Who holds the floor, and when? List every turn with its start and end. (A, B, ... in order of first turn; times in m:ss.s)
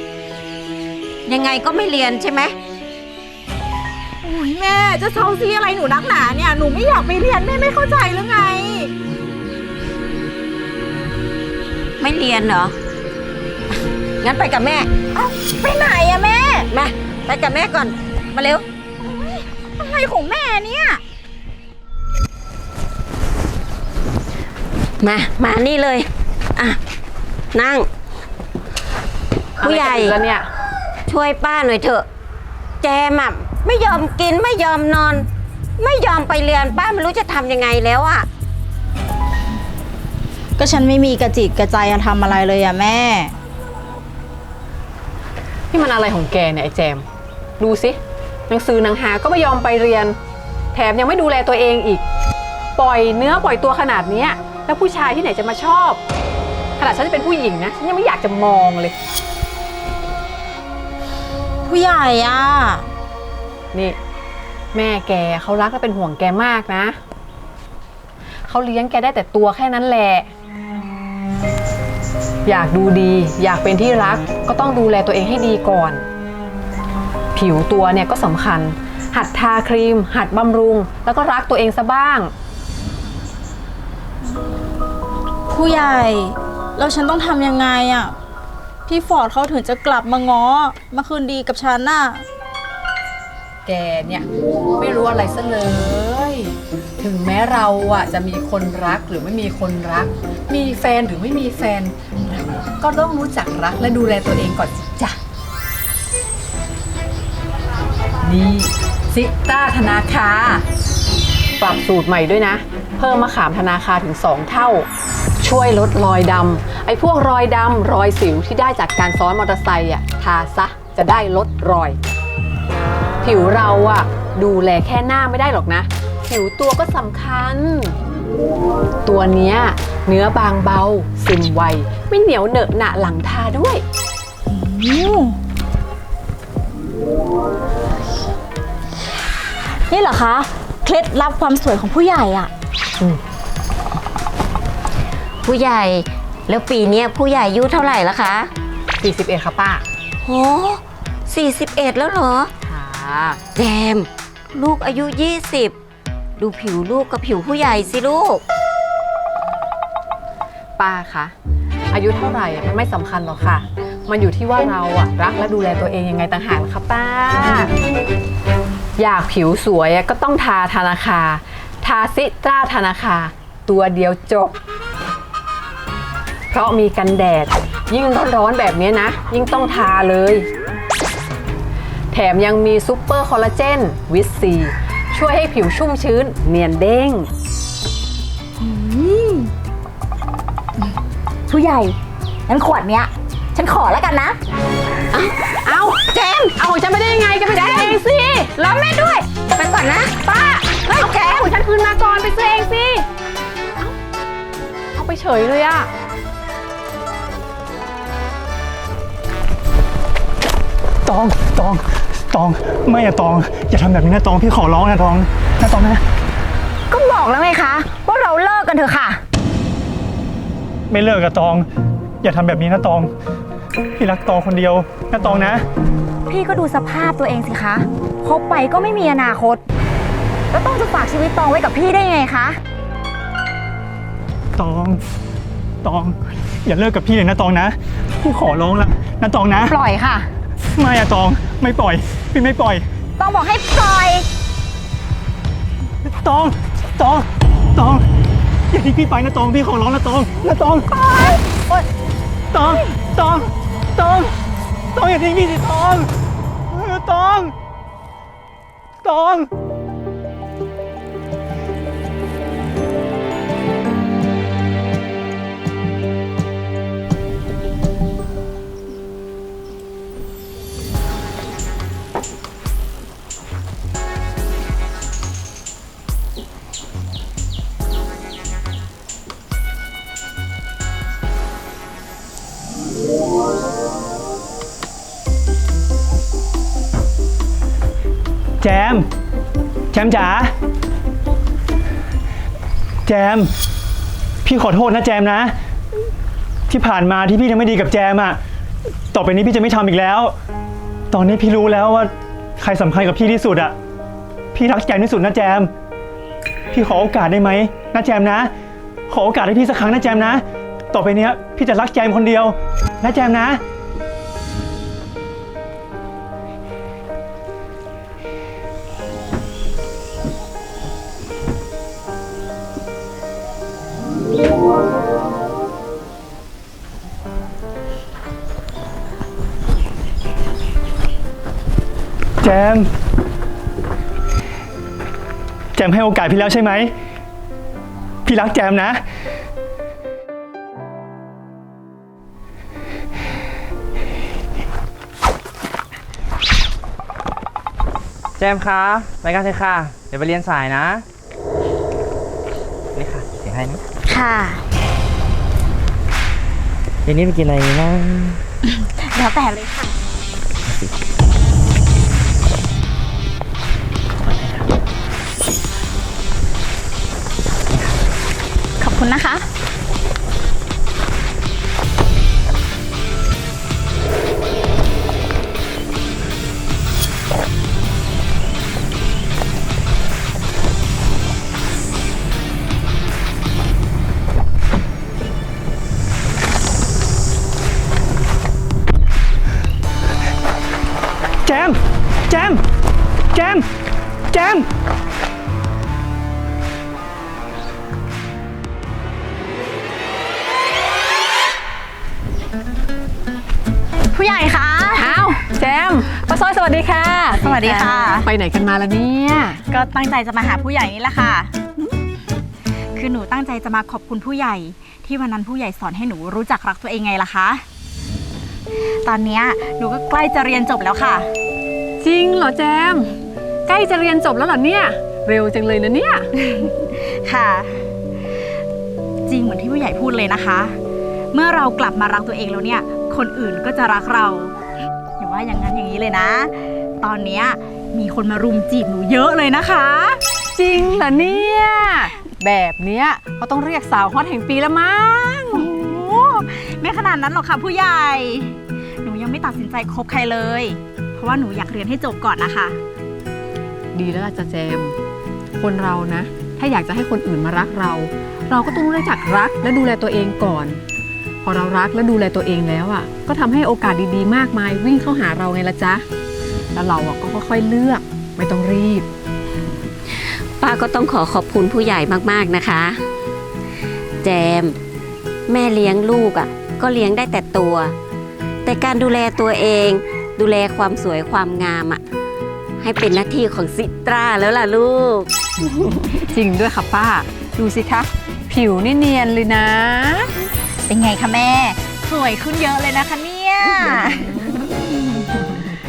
0:01.2-0:02.5 A
0:04.2-0:08.9 B
0:12.0-0:12.8 A
0:14.2-0:14.9 A
0:15.1-0:16.7 B
0:16.7-0:18.6 A
0:19.0-0:21.0 B
0:25.0-0:26.8 A
0:27.5-0:27.9 A
0:29.6-0:30.5 C
0:29.6-0:30.2 A
0:31.1-0:32.0 A
0:32.8-0:35.3 A
0:35.8-0:38.3 A
0:40.6-0:43.3 B
0:45.7-0:47.0 C
0:47.6-0:50.2 C
0:50.7-0:52.0 C
0:52.8-0:56.0 C
0:56.8-0:58.9 C
1:01.6-1:02.9 B
1:03.7-1:04.0 C
1:04.7-1:07.0 C
1:08.5-1:10.3 C
1:12.4-1:16.0 C
1:17.3-1:22.3 C
1:25.5-1:28.1 B
1:28.9-1:32.2 B
1:33.6-1:34.2 C
1:34.8-1:45.2 C
1:48.2-1:50.6 C
1:51.6-1:54.9 C
1:55.4-2:02.0 C
2:03.2-2:08.0 C
2:09.0-2:13.8 C
2:14.5-2:15.4 B
2:19.9-2:22.5 B
2:25.4-2:28.5 A
2:29.0-2:29.8 C
2:30.2-2:32.5 A
2:32.6-2:33.4 C
2:33.5-2:35.7 A
2:36.4-2:38.4 A
2:40.8-2:41.3 C
2:41.9-2:47.7 C
2:49.0-2:54.6 C
2:56.5-3:00.5 C
3:02.1-3:07.3 C
3:08.6-3:09.5 B
3:11.5-3:12.0 B
3:12.5-3:14.4 B
3:15.1-3:19.2 C
3:16.1-3:16.5 A
3:17.6-3:17.9 A
3:19.5-3:20.2 A
3:20.2-3:23.0 C
3:20.9-3:21.4 A
3:24.9-3:25.9 C
3:31.0-3:36.0 D
3:36.9-3:39.2 B
3:40.9-3:41.7 D
3:42.2-3:43.1 D
3:44.0-3:45.6 D
3:46.3-3:49.6 B
3:50.5-3:52.6 B
3:54.6-3:55.0 D
3:55.8-3:59.8 D
3:59.7-4:00.3 B
4:00.8-4:02.9 D
4:03.2-4:04.2 B
4:06.0-4:08.0 D
4:08.7-4:10.9 D
4:10.9-4:11.4 B
4:12.5-4:14.3 D
4:14.9-4:16.1 D
4:16.7-4:17.5 D
4:19.0-4:19.5 D
4:48.6-4:49.1 D
4:49.9-4:50.5 D
4:53.0-4:53.5 D
4:54.4-4:55.5 D
4:56.7-4:58.4 D
4:59.1-5:00.3 D
5:01.1-5:03.7 D
5:04.5-5:05.7 D
5:06.7-5:08.5 D
5:09.1-5:13.6 D
5:32.4-5:32.9 D
5:35.8-5:36.9 D
5:38.2-5:39.0 D
5:48.4-5:51.0 E
5:52.9-5:53.8 E
5:54.0-5:54.6 B
5:57.0-5:58.4 E
5:58.7-6:00.0 B
6:04.3-6:04.6 E
6:08.8-6:09.5 B
6:31.4-6:32.6 D
6:33.3-6:33.6 D
6:34.3-6:34.7 D
6:44.1-6:45.1 B
6:44.9-6:49.6 C
6:47.4-6:48.3 B
6:49.7-6:51.6 B
6:52.9-6:57.6 B
6:59.0-7:01.3 B
7:02.0-7:06.3 C
7:06.4-7:07.8 B
7:09.3-7:10.8 B
7:11.3-7:14.5 B
7:15.2-7:20.2 B
7:20.5-7:25.7 C
7:25.5-7:32.8 B
7:33.9-7:34.9 C
7:35.6-7:40.8 C
7:41.4-7:46.0 C
7:46.7-7:49.1 C
7:50.6-7:53.0 A
7:54.2-7:54.8 A
7:55.5-7:57.9 A
7:58.6-8:02.0 A
8:02.8-8:06.2 A
8:06.2-8:10.4 C
8:10.9-8:15.2 B